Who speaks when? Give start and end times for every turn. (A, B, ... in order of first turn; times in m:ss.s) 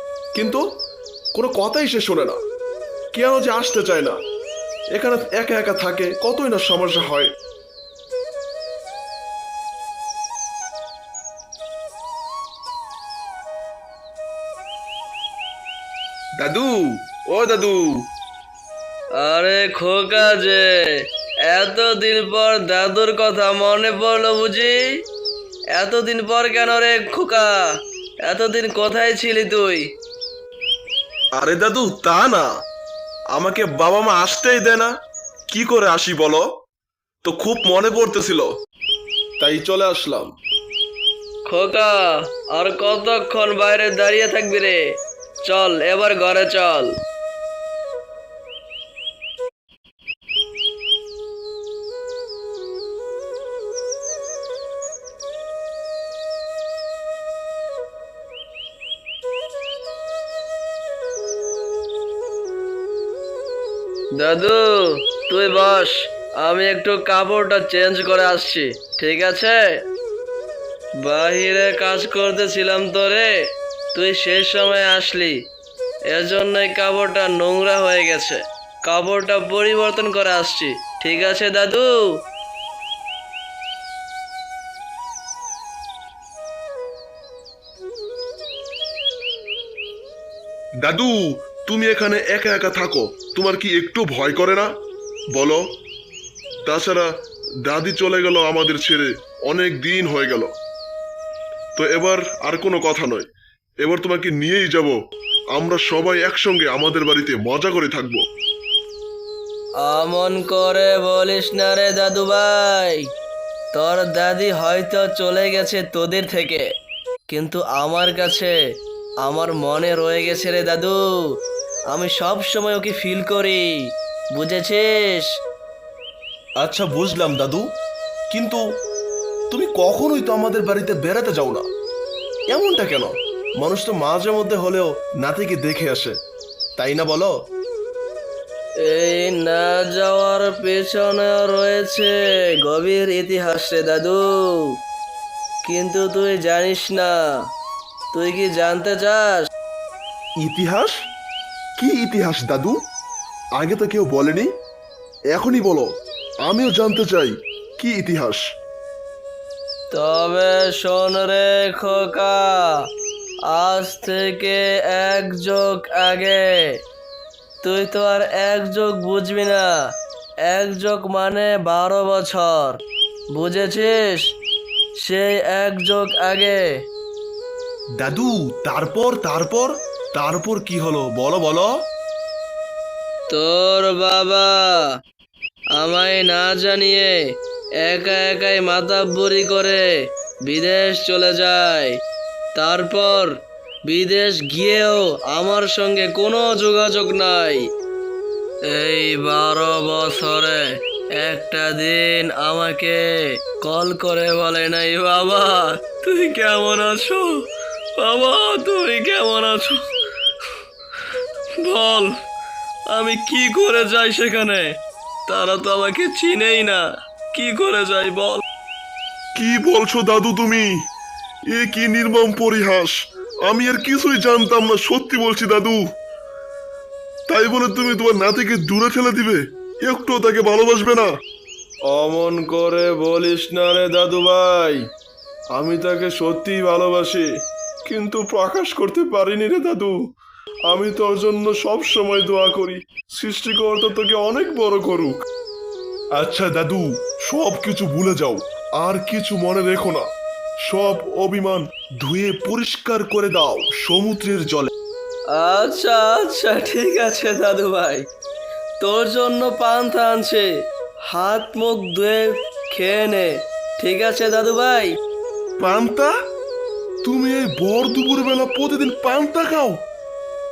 0:00.3-0:00.6 A
0:01.3-0:02.4 A
0:03.1-0:04.2 A
0:04.9-0:07.3 A
0:16.4-0:18.0 A
0:19.2-0:24.8 B
0:25.7-0:27.6 B
0:28.2-0:29.8 B
0:31.4-0:32.5 A
0:33.3-0:34.9 A
0:35.5-0:36.4 A
0:37.2-0:38.5 A
0:39.4-0:40.3 A
0:41.5-0:42.0 B
0:42.5-0:44.8 B
0:45.4-0:46.9 B
1:04.2-1:09.7 B
1:11.0-1:13.3 B
1:13.9-1:15.4 B
1:16.1-1:21.9 B
1:30.8-1:34.7 A
1:35.3-1:35.6 A
1:36.6-1:37.1 A
1:37.6-1:40.5 A
1:41.8-1:43.3 A
1:43.8-1:45.0 A
1:45.5-1:48.2 A
1:49.8-1:53.0 B
1:53.7-1:56.6 B
1:57.3-1:58.5 B
1:59.2-2:01.0 B
2:01.9-2:03.7 B
2:04.3-2:05.3 B
2:06.6-2:07.6 A
2:08.3-2:08.6 A
2:09.5-2:11.6 A
2:12.5-2:16.1 A
2:16.8-2:17.3 A
2:18.8-2:22.1 B
2:22.6-2:24.7 B
2:25.6-2:27.2 B
2:28.1-2:29.5 B
2:30.4-2:31.0 A
2:31.8-2:32.8 A
2:33.6-2:34.5 A
2:35.3-2:35.9 A
2:36.4-2:38.4 A
2:39.9-2:42.8 B
2:43.5-2:46.7 B
2:47.6-2:49.7 B
2:50.5-2:52.8 B
2:53.3-2:54.2 B
2:55.0-2:56.6 B
2:58.0-3:01.7 A
3:03.3-3:04.9 B
3:05.8-3:07.2 B
3:07.8-3:09.8 B
3:10.5-3:11.9 B
3:12.6-3:13.3 B
3:13.9-3:17.6 B
3:18.7-3:23.0 B
3:23.6-3:27.4 B
3:28.0-3:29.8 B
3:31.6-3:32.1 B
3:32.9-3:34.7 B
3:35.3-3:38.4 B
3:39.3-3:40.7 A
3:41.5-3:43.0 A
3:43.5-3:45.8 A
3:47.3-3:51.1 A
3:51.9-3:52.6 A
3:52.3-3:54.4 B
3:53.6-3:54.7 A
3:55.6-3:57.2 A
3:57.8-4:00.0 A
4:00.7-4:05.2 A
4:06.2-4:10.0 A
4:10.6-4:14.7 A
4:15.3-4:18.0 B
4:18.8-4:20.5 B
4:21.1-4:24.9 B
4:25.6-4:26.1 A
4:27.0-4:29.8 A